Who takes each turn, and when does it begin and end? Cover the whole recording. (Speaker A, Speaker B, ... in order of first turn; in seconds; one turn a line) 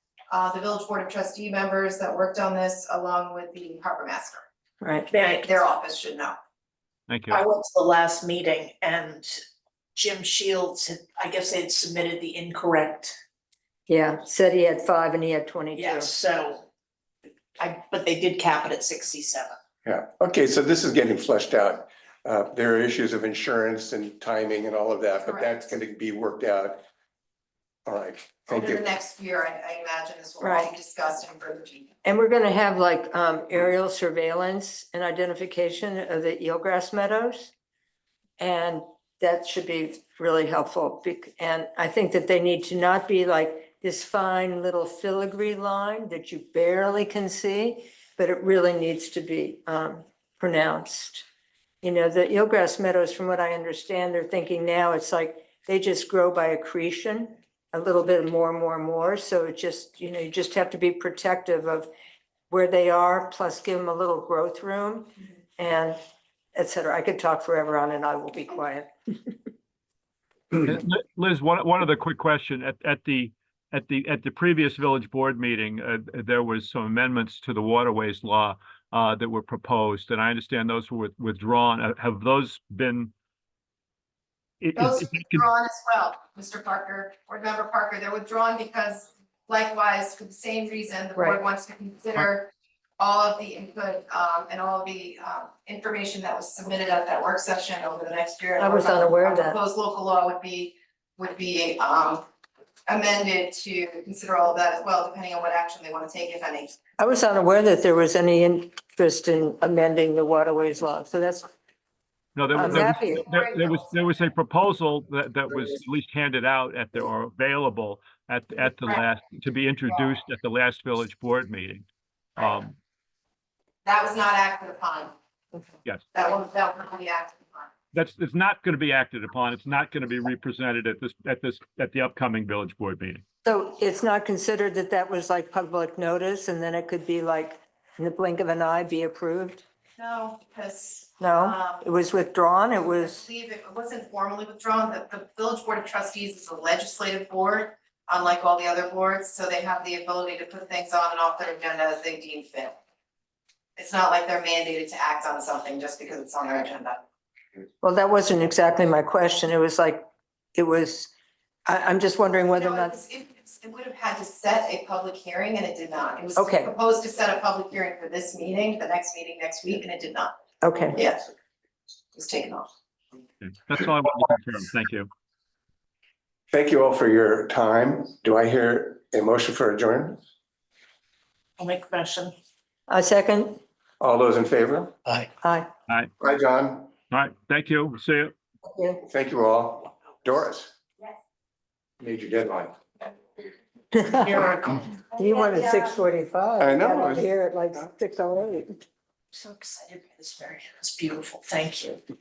Speaker A: 0.3-4.4
Speaker B: 4.8-5.1
Speaker C: 5.1-5.5
Speaker A: 5.2-6.4
Speaker D: 7.1-7.4
Speaker C: 7.3-9.4
Speaker C: 9.9-13.2
Speaker B: 13.9-16.1
Speaker C: 15.8-16.6
Speaker C: 17.6-19.6
Speaker E: 19.9-26.8
Speaker A: 25.3-25.6
Speaker E: 27.9-28.9
Speaker A: 28.5-31.9
Speaker B: 30.4-30.7
Speaker B: 32.0-37.5
Speaker B: 38.4-51.3
Speaker B: 51.8-61.9
Speaker B: 62.5-66.0
Speaker B: 66.5-69.3
Speaker D: 70.6-83.1
Speaker D: 84.6-85.5
Speaker A: 84.8-102.2
Speaker B: 98.6-99.6
Speaker A: 102.9-106.8
Speaker B: 107.0-111.5
Speaker D: 112.3-122.8
Speaker B: 112.5-113.2
Speaker A: 112.6-114.0
Speaker A: 123.8-125.1
Speaker A: 126.1-127.7
Speaker D: 127.9-133.2
Speaker B: 133.4-139.7
Speaker A: 140.0-141.9
Speaker B: 141.2-143.2
Speaker A: 142.7-152.8
Speaker A: 153.8-157.0
Speaker B: 157.8-161.1
Speaker B: 161.7-163.0
Speaker A: 162.6-170.4
Speaker B: 166.4-166.7
Speaker B: 170.6-171.0
Speaker A: 170.9-171.3
Speaker A: 172.1-172.7
Speaker D: 173.4-175.1
Speaker E: 176.5-180.2
Speaker C: 181.6-182.3
Speaker B: 182.9-183.6
Speaker E: 184.0-185.0
Speaker B: 185.4-185.7
Speaker E: 186.2-186.9
Speaker D: 187.1-188.3
Speaker B: 188.7-189.0
Speaker E: 189.1-190.7
Speaker E: 192.0-192.8
Speaker B: 193.9-194.4
Speaker C: 194.1-195.0
Speaker B: 195.1-198.8
Speaker E: 196.6-197.3
Speaker C: 199.3-202.0